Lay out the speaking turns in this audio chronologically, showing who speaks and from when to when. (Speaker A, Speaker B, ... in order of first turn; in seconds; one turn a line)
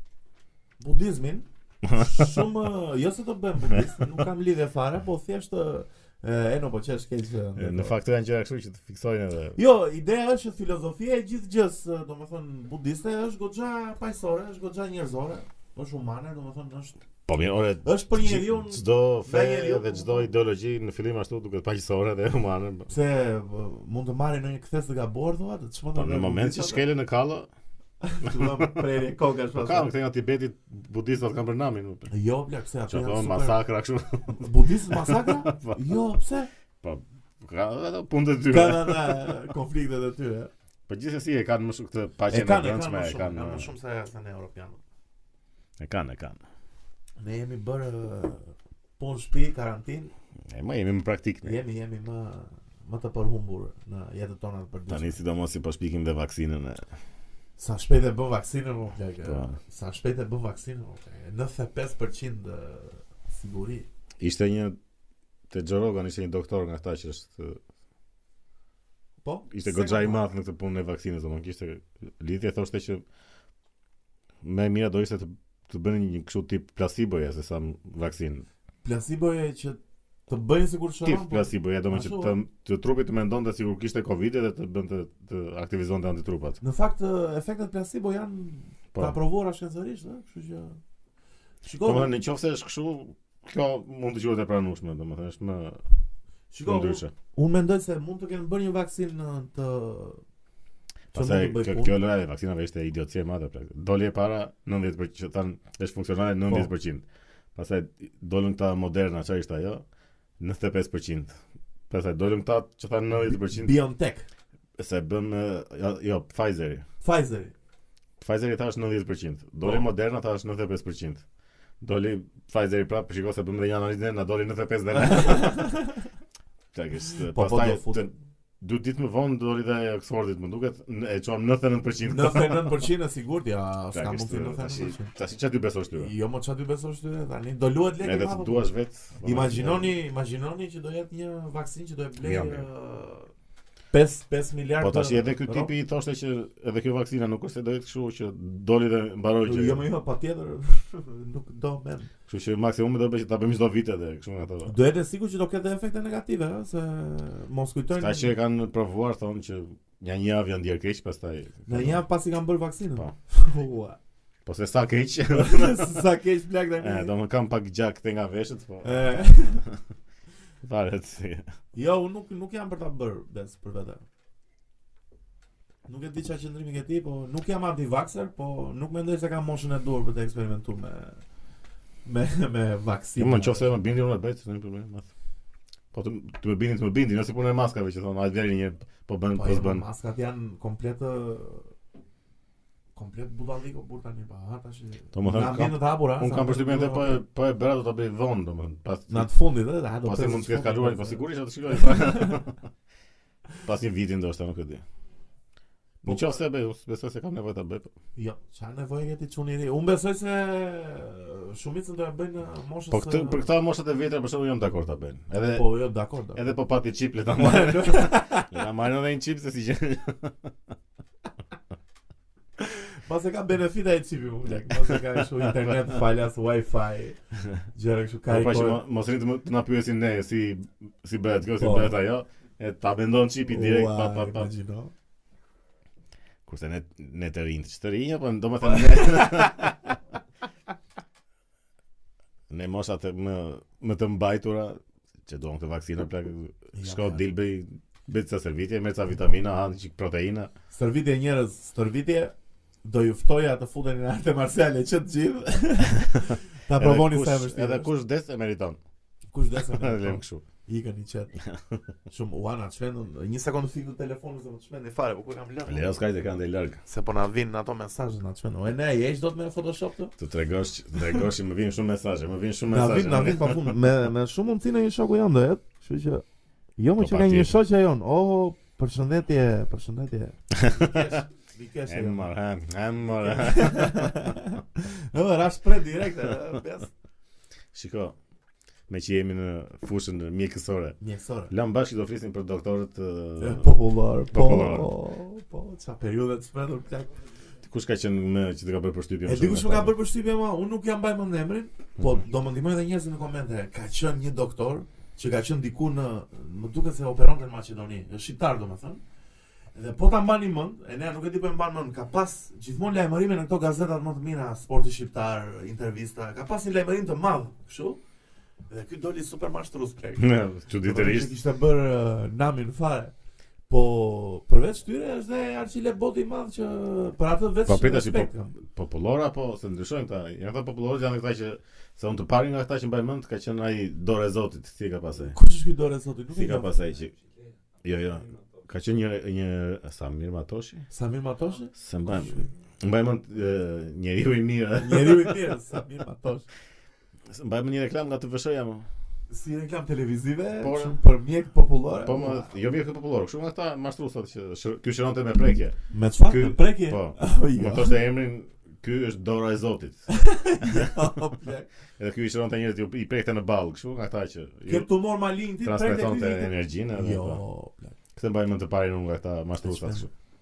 Speaker A: 0.8-8.0
Speaker B: 1.8-2.5
Speaker B: 7.6-9.6
Speaker A: 9.6-17.0
Speaker B: 17.3-22.9
Speaker A: 17.8-20.3
Speaker A: 22.9-26.8
Speaker B: 25.9-27.5
Speaker A: 28.0-29.9
Speaker B: 28.2-28.8
Speaker B: 29.6-32.1
Speaker A: 32.1-33.6
Speaker B: 32.9-35.8
Speaker A: 34.4-36.5
Speaker B: 36.8-39.4
Speaker A: 38.5-40.5
Speaker B: 40.9-43.7
Speaker A: 42.3-44.8
Speaker B: 45.8-46.4
Speaker A: 47.2-50.1
Speaker B: 50.5-51.6
Speaker A: 51.4-55.2
Speaker B: 54.9-56.9
Speaker A: 57.6-63.9
Speaker B: 59.2-59.6
Speaker B: 64.2-64.8
Speaker B: 65.5-67.6
Speaker A: 69.2-70.3
Speaker B: 69.5-73.0
Speaker B: 74.4-78.5
Speaker A: 78.8-82.4
Speaker B: 81.0-86.6
Speaker A: 86.6-90.8
Speaker A: 91.6-92.1
Speaker B: 91.8-95.8
Speaker A: 96.5-100.2
Speaker B: 96.6-97.1
Speaker B: 101.1-107.0
Speaker A: 101.1-102.0
Speaker B: 107.5-109.8
Speaker B: 110.4-111.3
Speaker B: 111.9-113.7
Speaker A: 113.1-114.3
Speaker B: 114.8-116.8
Speaker A: 117.0-117.5
Speaker B: 118.2-121.2
Speaker B: 121.8-125.7
Speaker A: 125.0-126.0
Speaker B: 126.7-132.8
Speaker A: 127.1-128.1
Speaker A: 132.0-135.1
Speaker B: 133.9-136.1
Speaker A: 135.9-143.3
Speaker B: 138.0-139.9
Speaker B: 142.2-142.7
Speaker A: 143.9-145.7
Speaker B: 144.8-149.9
Speaker A: 149.4-152.1
Speaker B: 152.3-154.7
Speaker A: 154.7-158.3
Speaker B: 158.0-162.0
Speaker A: 161.7-164.0
Speaker B: 164.5-166.0
Speaker A: 165.3-167.1
Speaker B: 166.8-169.8
Speaker A: 168.8-169.6
Speaker B: 170.6-171.5
Speaker A: 171.7-174.0
Speaker A: 175.9-181.2
Speaker A: 182.1-183.8
Speaker B: 183.2-185.1
Speaker B: 185.9-189.8
Speaker A: 189.3-191.7
Speaker A: 192.9-197.2
Speaker B: 195.1-199.3
Speaker A: 199.1-202.4
Speaker B: 200.0-202.6
Speaker B: 203.6-204.8
Speaker A: 206.0-206.4
Speaker B: 206.0-207.9
Speaker A: 208.2-213.4
Speaker B: 212.9-215.7
Speaker A: 215.5-216.5
Speaker B: 216.3-220.5
Speaker A: 217.3-218.5
Speaker A: 223.0-227.2
Speaker B: 224.7-225.8
Speaker A: 227.7-228.8
Speaker B: 228.3-234.5
Speaker A: 231.6-232.0
Speaker A: 233.5-234.9
Speaker B: 236.5-240.0
Speaker A: 238.9-239.7
Speaker B: 242.5-250.5
Speaker A: 246.7-247.2
Speaker A: 250.7-257.9
Speaker B: 256.7-258.8
Speaker A: 259.3-261.4
Speaker B: 259.6-260.4
Speaker B: 261.4-261.8
Speaker A: 262.1-266.0
Speaker B: 265.7-266.8
Speaker A: 266.9-270.1
Speaker B: 270.2-273.7
Speaker A: 272.7-276.2
Speaker A: 276.8-282.3
Speaker B: 277.0-277.6
Speaker B: 280.6-281.2
Speaker B: 281.9-284.3
Speaker A: 283.2-286.9
Speaker B: 287.7-288.2
Speaker B: 288.9-291.0
Speaker A: 291.0-291.5
Speaker B: 291.5-293.7
Speaker A: 293.4-297.2
Speaker B: 294.3-294.9
Speaker B: 297.6-299.9
Speaker A: 299.2-309.0
Speaker A: 309.8-318.0
Speaker A: 318.7-323.1
Speaker B: 320.2-321.4
Speaker A: 323.7-328.6
Speaker B: 327.7-335.4
Speaker A: 335.2-336.8
Speaker B: 336.3-337.1
Speaker B: 337.8-340.9
Speaker A: 340.9-342.5
Speaker B: 341.8-345.4
Speaker A: 344.8-346.5
Speaker B: 347.3-348.9
Speaker A: 349.3-352.5
Speaker B: 350.6-351.0
Speaker B: 352.0-360.9
Speaker A: 355.9-358.0
Speaker A: 360.1-361.7
Speaker B: 362.0-364.9
Speaker A: 364.7-368.0
Speaker B: 365.6-367.4
Speaker B: 368.2-370.1
Speaker A: 369.6-370.1